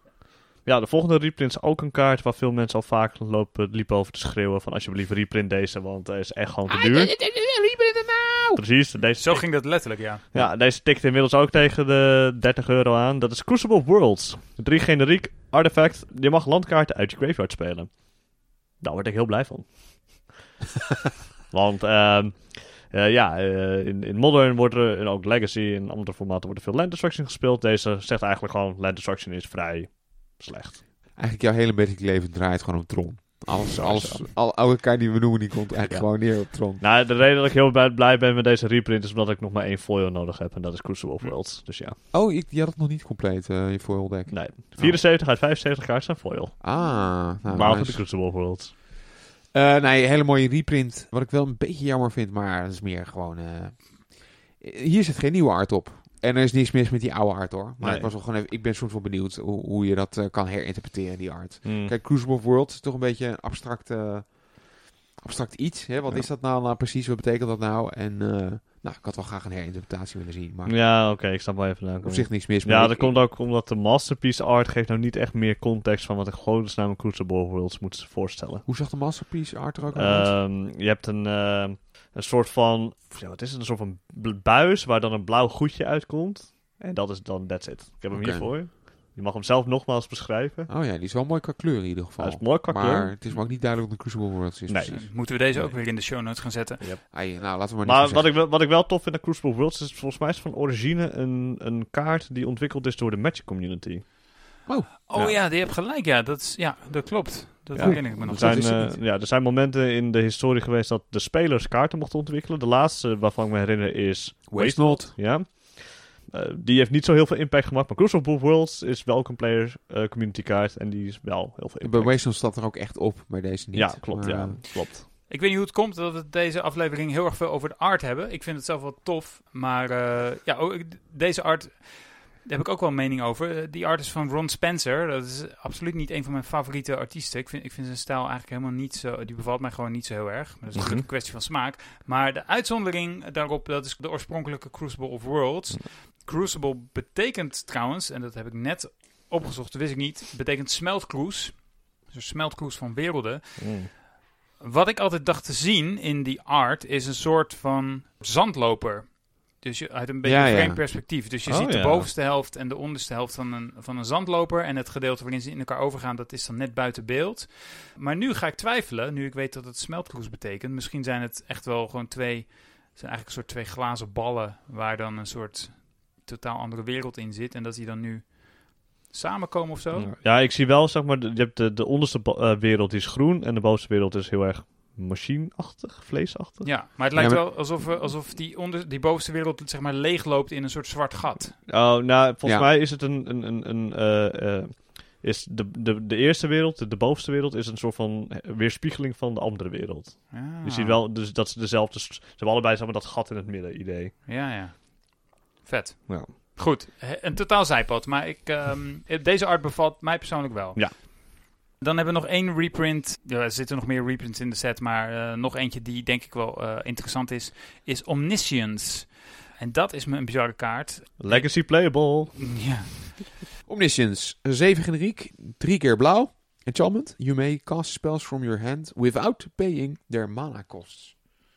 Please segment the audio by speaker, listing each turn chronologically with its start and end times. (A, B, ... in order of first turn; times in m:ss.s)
0:00.6-0:07.2 A
0:06.7-0:08.6 B
0:08.6-0:20.5 A
0:09.2-0:10.2 C
0:21.5-0:30.8 A
0:31.1-0:36.8 B
0:33.5-0:34.3 A
0:35.9-0:42.0 A
0:42.1-0:45.0 B
0:44.3-0:48.7 A
0:46.6-0:48.4 B
0:49.5-1:11.4 B
0:57.8-0:58.1 A
1:01.6-1:01.9 A
1:10.7-1:18.7 A
1:12.0-1:13.2 B
1:18.7-1:20.4 B
1:19.9-1:30.7 A
1:28.1-1:28.5 B
1:30.7-1:35.7 B
1:32.2-1:33.1 A
1:34.7-1:35.7 A
1:34.9-1:36.9 C
1:36.8-1:44.1 A
1:37.1-1:38.3 B
1:44.7-1:45.3 B
1:45.1-1:48.9 C
1:47.7-2:02.1 A
1:47.8-1:49.0 B
1:54.5-1:55.2 B
2:01.8-2:04.9 B
2:03.7-2:05.1 A
2:04.9-2:34.0 C
2:20.7-2:21.1 A
2:33.6-2:33.9 A
2:34.6-3:00.1 C
2:40.2-2:40.8 B
2:41.4-2:42.1 A
3:00.0-3:06.8 A
3:06.6-3:11.6 C
3:07.1-3:07.4 B
3:11.7-3:24.2 A
3:12.4-3:12.7 B
3:20.3-3:21.0 C
3:24.3-3:43.2 C
3:41.2-3:42.8 A
3:43.7-3:51.2 B